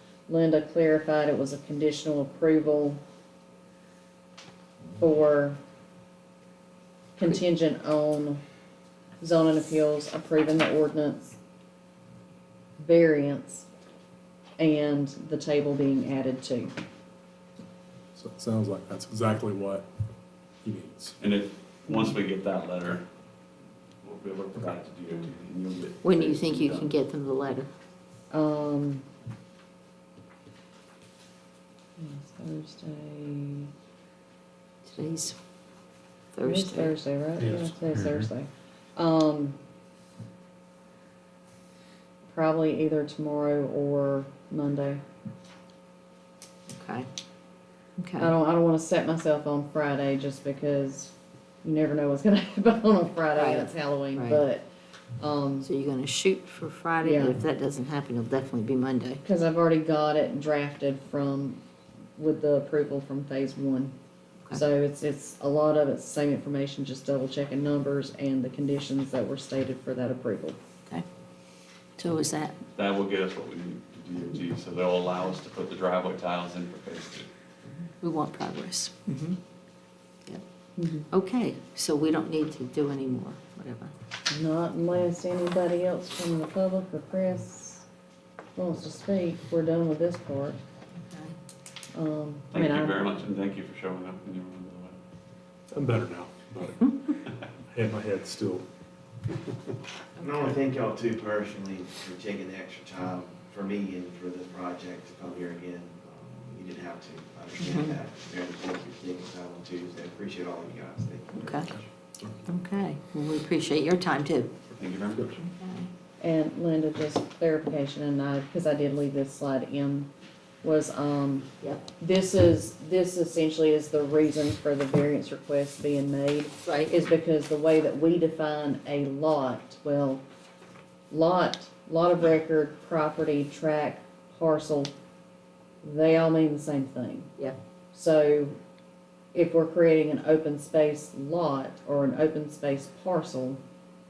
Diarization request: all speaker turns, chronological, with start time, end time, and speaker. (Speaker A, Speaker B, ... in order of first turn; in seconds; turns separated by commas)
Speaker A: 0.3-3.0, Speaker A: 5.0-5.6, Speaker A: 7.2-8.4, Speaker A: 9.2-11.4, Speaker A: 12.8-13.7, Speaker A: 14.6-16.8, Speaker B: 18.2-19.9, Speaker B: 20.6-21.2, Speaker C: 21.2-23.1, Speaker C: 24.0-26.9, Speaker D: 26.0-27.7, Speaker A: 28.3-29.1, Speaker A: 32.0-33.7, Speaker D: 34.9-35.4, Speaker D: 36.3-37.0, Speaker A: 36.5-39.6, Speaker B: 37.6-38.1, Speaker A: 42.3-45.0, Speaker D: 46.7-47.1, Speaker D: 48.0-48.3, Speaker A: 48.2-51.1, Speaker A: 51.6-54.7, Speaker D: 53.3-54.4, Speaker A: 55.2-55.7, Speaker D: 55.6-59.2, Speaker A: 57.0-57.4, Speaker A: 59.2-61.6, Speaker A: 62.2-64.0, Speaker A: 64.5-70.6, Speaker D: 72.0-72.6, Speaker C: 72.8-77.3, Speaker D: 78.0-79.0, Speaker B: 79.1-79.4, Speaker A: 80.8-81.1, Speaker D: 81.1-83.9, Speaker A: 84.3-87.9, Speaker A: 88.6-90.6, Speaker D: 91.0-91.3, Speaker A: 91.9-93.0, Speaker C: 92.5-95.0, Speaker B: 95.7-98.7, Speaker E: 100.2-111.9, Speaker D: 107.6-108.0, Speaker D: 111.4-111.7, Speaker D: 112.5-114.6, Speaker C: 114.7-115.4, Speaker D: 115.4-115.9, Speaker A: 116.2-120.1, Speaker A: 120.6-130.2, Speaker D: 126.7-126.9, Speaker A: 131.1-134.9, Speaker A: 135.8-137.3, Speaker A: 137.9-138.6, Speaker A: 139.3-143.6